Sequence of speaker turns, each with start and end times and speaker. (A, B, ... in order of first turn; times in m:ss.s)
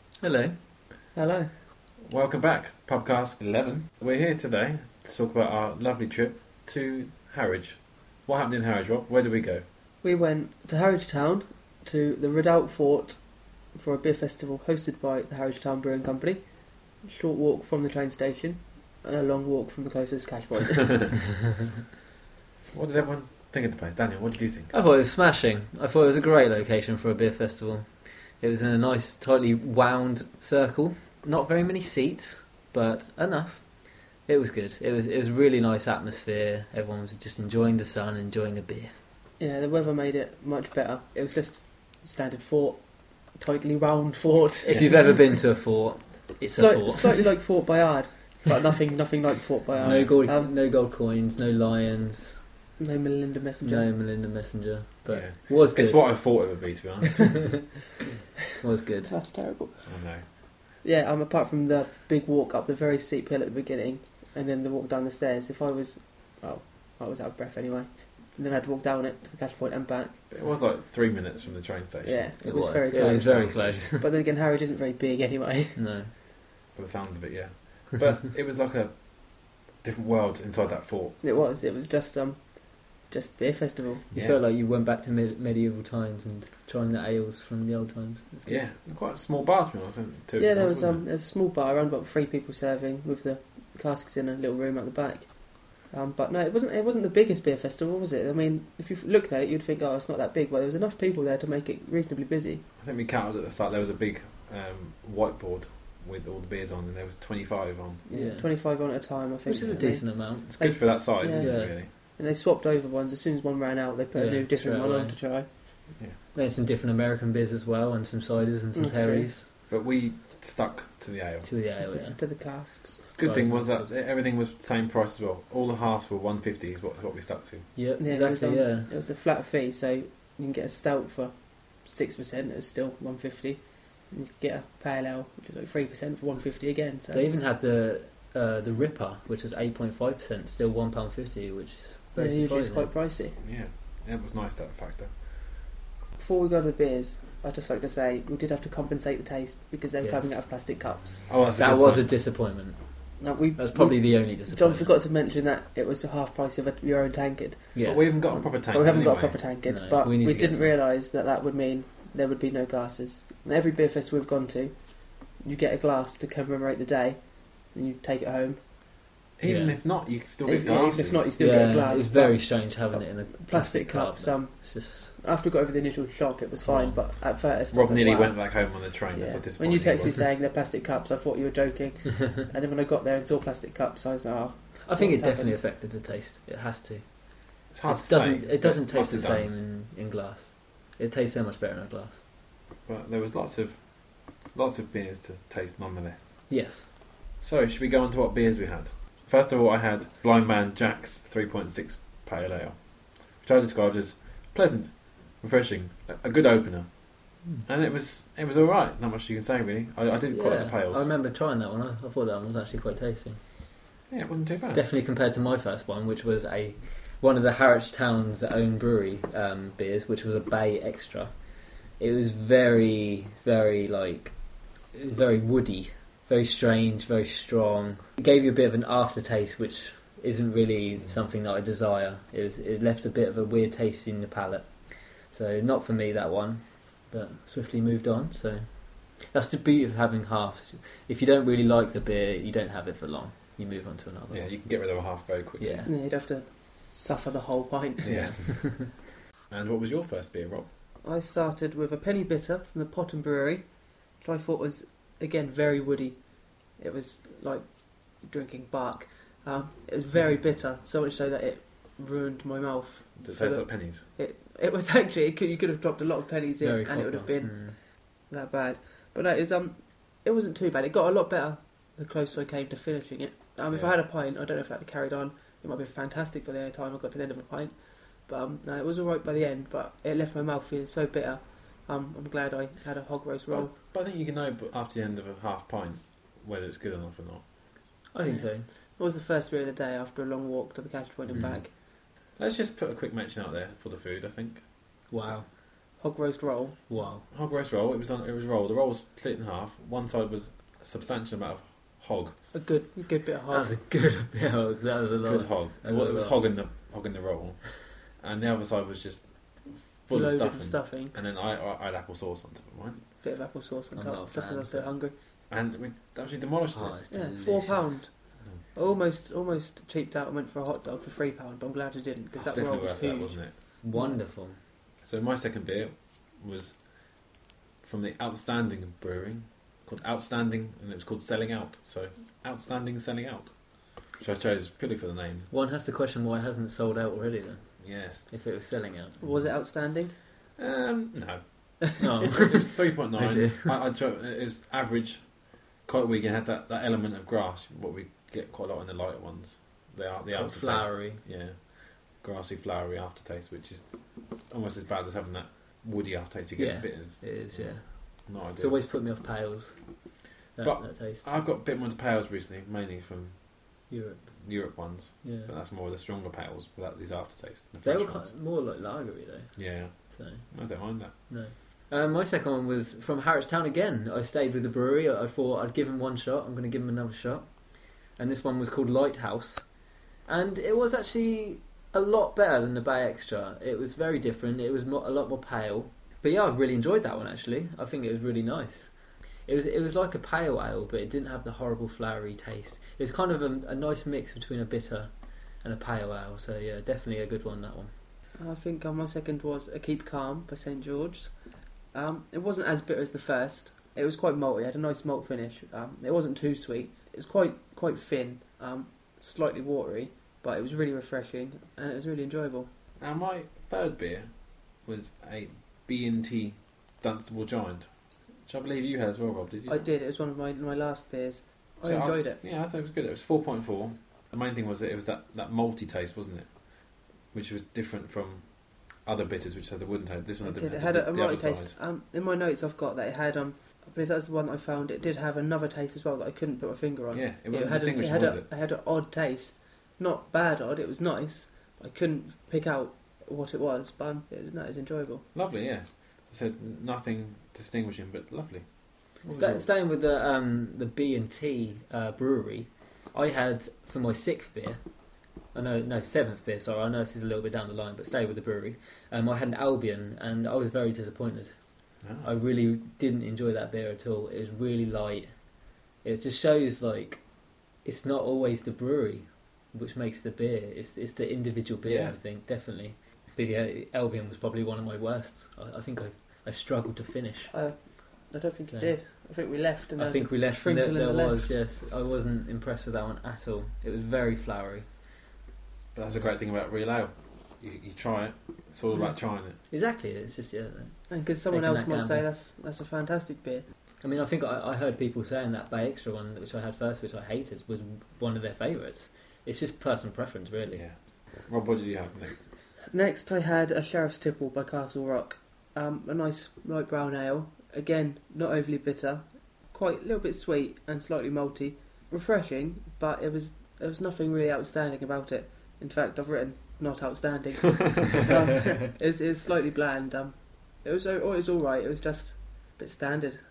0:00.2-0:00.6 A
0:01.2-0:01.5 B
0:02.0-0:09.6 C
0:10.0-0:21.2 B
0:22.7-0:24.7 C
0:24.7-0:38.9 A
0:39.4-0:45.3 B
0:44.6-0:47.3 A
0:46.6-0:50.5 B
0:49.8-0:50.1 C
0:49.8-0:52.5 A
0:52.8-0:53.9 B
0:53.6-0:56.8 A
0:55.1-0:57.6 C
0:58.4-0:59.3 A
0:59.1-1:10.2 B
0:59.9-1:00.3 C
1:10.3-1:12.3 C
1:12.0-1:15.8 B
1:12.4-1:14.1 A
1:12.9-1:13.9 C
1:15.8-1:16.1 A
1:16.8-1:21.2 C
1:21.2-1:24.1 B
1:24.1-1:24.4 C
1:24.2-1:28.7 A
1:28.5-1:31.0 C
1:30.4-1:42.7 B
1:42.8-1:48.0 C
1:48.1-1:55.5 B
1:48.1-1:48.9 A
1:49.4-1:51.8 A
1:50.4-1:51.9 C
1:54.1-1:55.8 A
1:56.3-1:59.5 A
1:58.8-1:59.3 B
1:59.7-2:01.5 C
2:01.4-2:03.9 A
2:01.8-2:03.1 B
2:03.2-2:07.7 C
2:07.8-2:08.9 A
2:08.0-2:17.3 B
2:17.1-2:22.9 A
2:22.2-2:23.4 B
2:23.4-2:25.1 C
2:26.2-2:31.3 B
2:30.0-2:30.7 A
2:31.3-2:32.1 C
2:31.6-2:34.9 A
2:33.2-2:48.6 B
2:37.7-2:38.2 A
2:37.8-2:39.4 C
2:39.6-2:40.7 A
2:49.4-2:51.3 C
2:49.4-2:50.1 A
2:50.4-3:05.6 B
2:51.4-2:55.1 A
2:56.6-2:57.0 A
2:57.7-3:00.2 C
3:04.9-3:12.2 A
3:07.7-3:09.5 C
3:12.8-3:16.8 C
3:16.5-3:16.9 A
3:17.4-3:31.1 C
3:30.3-3:33.4 A
3:34.1-3:34.9 C
3:34.7-3:41.4 A
3:42.0-4:05.0 A
4:04.3-4:05.9 C
4:05.6-4:05.9 A
4:05.9-4:08.4 B
4:08.0-4:10.7 C
4:08.1-4:08.9 A
4:11.0-4:43.8 B
4:23.2-4:24.0 C
4:26.6-4:27.8 A
4:43.5-4:47.4 C
4:48.1-4:48.7 A
4:48.3-4:51.7 B
4:51.3-4:51.6 A
4:52.4-4:54.7 C
4:55.1-4:55.5 A
4:56.0-4:56.8 B
4:56.9-4:57.3 A
4:57.3-5:02.4 C
5:02.5-5:03.7 B
5:03.5-5:06.6 A
5:05.2-5:13.1 C
5:10.1-5:11.2 B
5:13.2-5:15.2 B
5:14.0-5:15.0 A
5:15.5-5:17.0 C
5:16.7-5:18.1 A
5:17.1-5:24.2 B
5:22.4-5:23.6 C
5:23.8-5:24.6 A
5:25.0-5:35.5 C
5:35.5-5:39.3 A
5:37.8-5:38.3 C
5:39.2-5:40.1 B
5:40.6-5:58.8 C
5:42.0-5:43.8 A
5:50.3-5:51.2 A
5:56.6-6:01.3 A
6:00.6-6:08.4 C
6:03.9-6:05.5 A
6:07.8-6:10.7 A
6:09.6-6:11.2 C
6:11.3-6:28.9 A
6:29.5-6:35.1 A
6:35.6-6:37.9 A
6:38.4-6:41.4 B
6:41.9-6:52.7 B
6:53.0-6:59.9 C
6:59.7-7:02.4 B
7:01.8-7:11.8 C
7:10.4-7:25.3 B
7:17.1-7:18.4 C
7:25.3-7:29.7 C
7:29.2-7:34.8 A
7:35.5-7:45.5 A
7:42.0-7:42.3 C
7:46.0-7:57.5 A
7:51.8-7:52.2 C
7:57.5-8:01.6 B
7:58.7-7:59.0 A
8:00.0-8:05.0 A
8:06.0-8:09.6 C
8:09.7-8:12.3 A
8:11.1-8:13.7 B
8:14.0-8:20.8 A
8:20.7-8:22.5 C
8:22.9-8:43.4 B